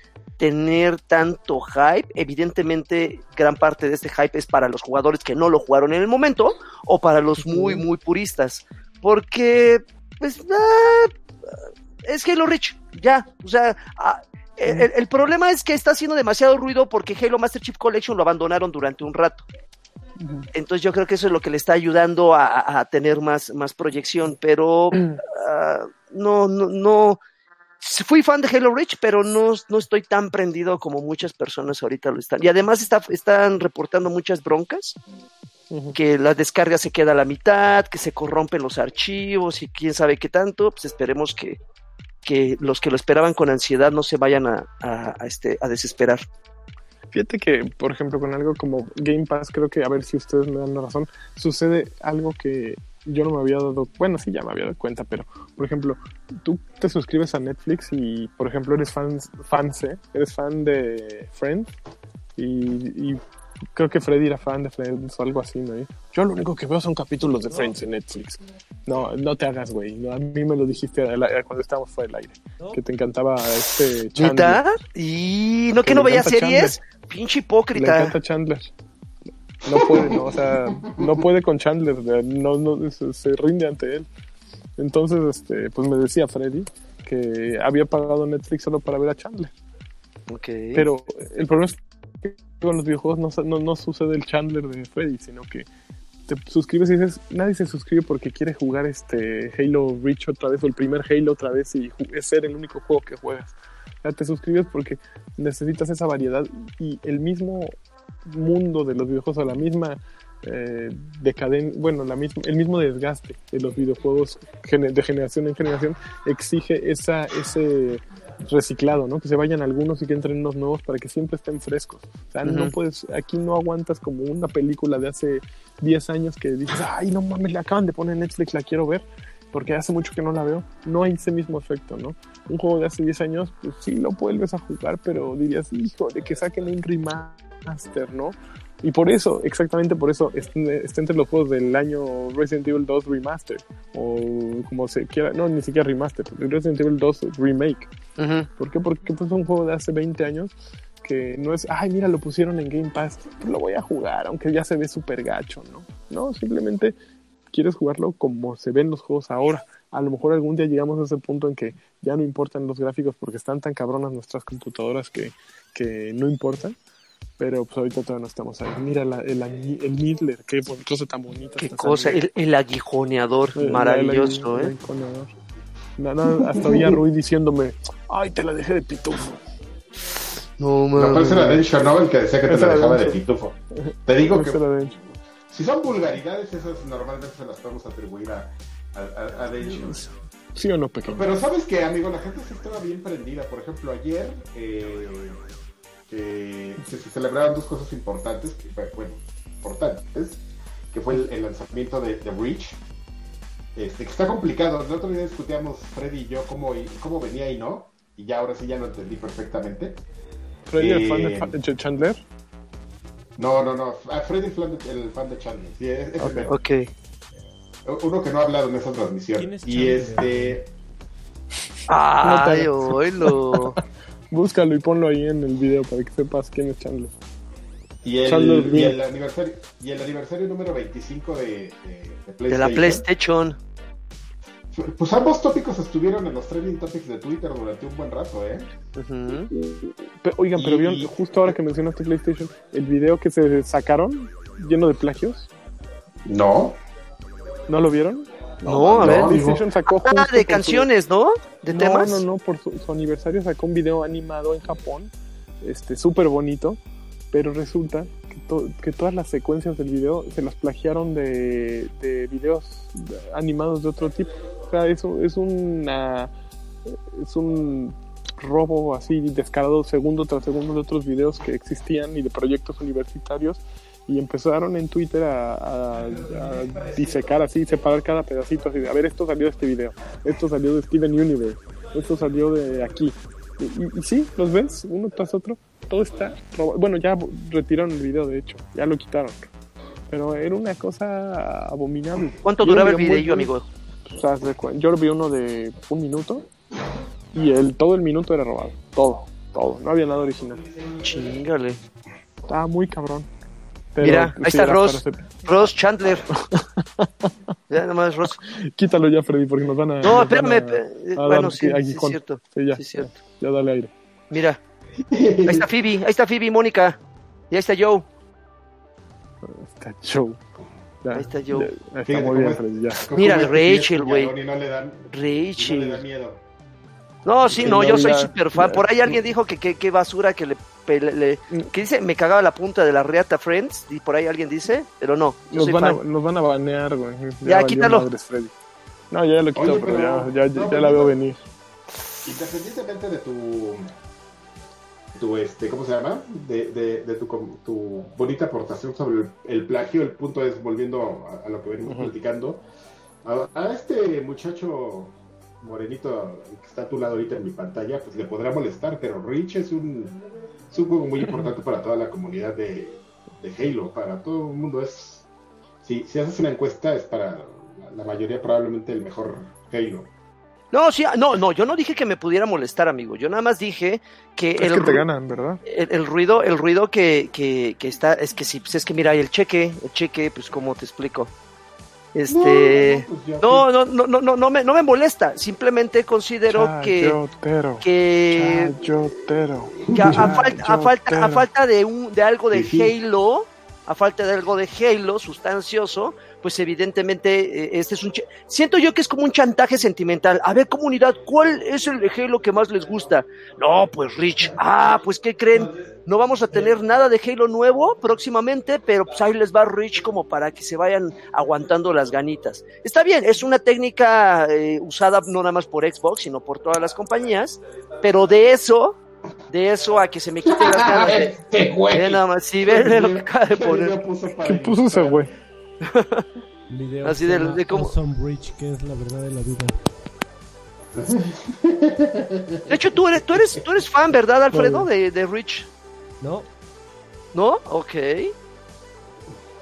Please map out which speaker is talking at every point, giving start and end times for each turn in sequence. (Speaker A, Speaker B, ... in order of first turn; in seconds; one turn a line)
Speaker A: 0.4-19.4
Speaker B: 7.4-7.8
Speaker B: 20.2-20.5
Speaker A: 20.5-27.2
Speaker A: 27.8-35.0
Speaker B: 35.7-36.0
Speaker A: 36.0-41.6
Speaker A: 42.2-46.2
Speaker B: 47.1-61.7
Speaker B: 62.4-63.2
Speaker B: 63.8-74.6
Speaker A: 74.2-78.1
Speaker B: 75.8-76.8
Speaker B: 77.8-78.7
Speaker B: 79.6-84.1
Speaker C: 79.8-80.1
Speaker C: 80.8-81.2
Speaker B: 84.8-89.5
Speaker A: 90.3-90.8
Speaker B: 90.8-95.7
Speaker B: 96.3-107.8
Speaker B: 108.2-147.9
Speaker A: 122.4-122.7
Speaker A: 148.2-148.5
Speaker B: 148.6-157.0
Speaker B: 157.5-166.8
Speaker B: 167.4-172.2
Speaker A: 171.6-174.7
Speaker B: 173.6-175.3
Speaker B: 176.0-179.5
Speaker A: 180.6-181.6
Speaker C: 180.9-190.0
Speaker B: 182.5-183.2
Speaker B: 183.8-185.0
Speaker B: 189.6-191.3
Speaker C: 191.1-195.4
Speaker C: 196.1-202.8
Speaker C: 203.8-210.0
Speaker B: 210.7-212.2
Speaker C: 210.8-211.5
Speaker C: 213.4-216.5
Speaker A: 216.2-216.9
Speaker C: 217.8-220.7
Speaker D: 219.4-220.6
Speaker A: 221.9-223.8
Speaker B: 222.2-227.1
Speaker C: 228.0-233.0
Speaker B: 228.2-229.0
Speaker A: 232.5-233.6
Speaker C: 234.7-238.7
Speaker A: 238.9-239.5
Speaker B: 239.5-245.5
Speaker C: 240.5-241.5
Speaker C: 246.2-246.8
Speaker B: 247.7-250.9
Speaker A: 248.6-249.5
Speaker C: 249.0-249.6
Speaker A: 250.0-252.2
Speaker B: 251.7-256.8
Speaker B: 257.3-266.3
Speaker B: 266.9-289.4
Speaker B: 290.1-293.5
Speaker A: 292.4-293.7
Speaker B: 294.1-296.5
Speaker B: 297.3-300.6
Speaker A: 301.0-301.8
Speaker B: 302.5-303.3
Speaker B: 303.9-305.4
Speaker A: 304.0-306.2
Speaker B: 306.3-307.3
Speaker A: 307.7-308.4
Speaker B: 308.3-313.9
Speaker A: 310.0-313.1
Speaker A: 314.3-314.6
Speaker C: 315.0-315.7
Speaker A: 315.4-317.0
Speaker A: 317.5-318.1
Speaker B: 319.4-320.4
Speaker B: 321.0-323.1
Speaker A: 321.1-321.7
Speaker C: 322.1-326.4
Speaker A: 323.1-324.3
Speaker A: 325.1-326.0
Speaker A: 327.2-336.0
Speaker B: 327.5-328.9
Speaker C: 327.6-328.0
Speaker B: 335.5-338.5
Speaker A: 337.4-338.1
Speaker B: 339.1-341.4
Speaker C: 339.5-341.1
Speaker C: 342.2-343.9
Speaker C: 345.1-352.6
Speaker B: 351.9-352.1
Speaker C: 353.2-365.2
Speaker C: 365.8-370.1
Speaker A: 370.7-375.0
Speaker B: 374.6-375.6
Speaker A: 375.6-381.3
Speaker A: 382.1-387.2
Speaker C: 382.3-383.7
Speaker B: 386.5-391.4
Speaker A: 387.8-388.7
Speaker C: 389.9-390.4
Speaker A: 389.9-419.0
Speaker C: 392.5-392.9
Speaker A: 419.5-421.4
Speaker C: 420.4-425.3
Speaker A: 421.9-424.0
Speaker B: 424.4-425.3
Speaker A: 425.8-426.2
Speaker D: 426.7-429.8
Speaker A: 427.0-427.9
Speaker C: 430.9-433.6
Speaker A: 432.7-435.7
Speaker B: 434.5-434.9
Speaker D: 436.2-436.5
Speaker A: 437.3-438.3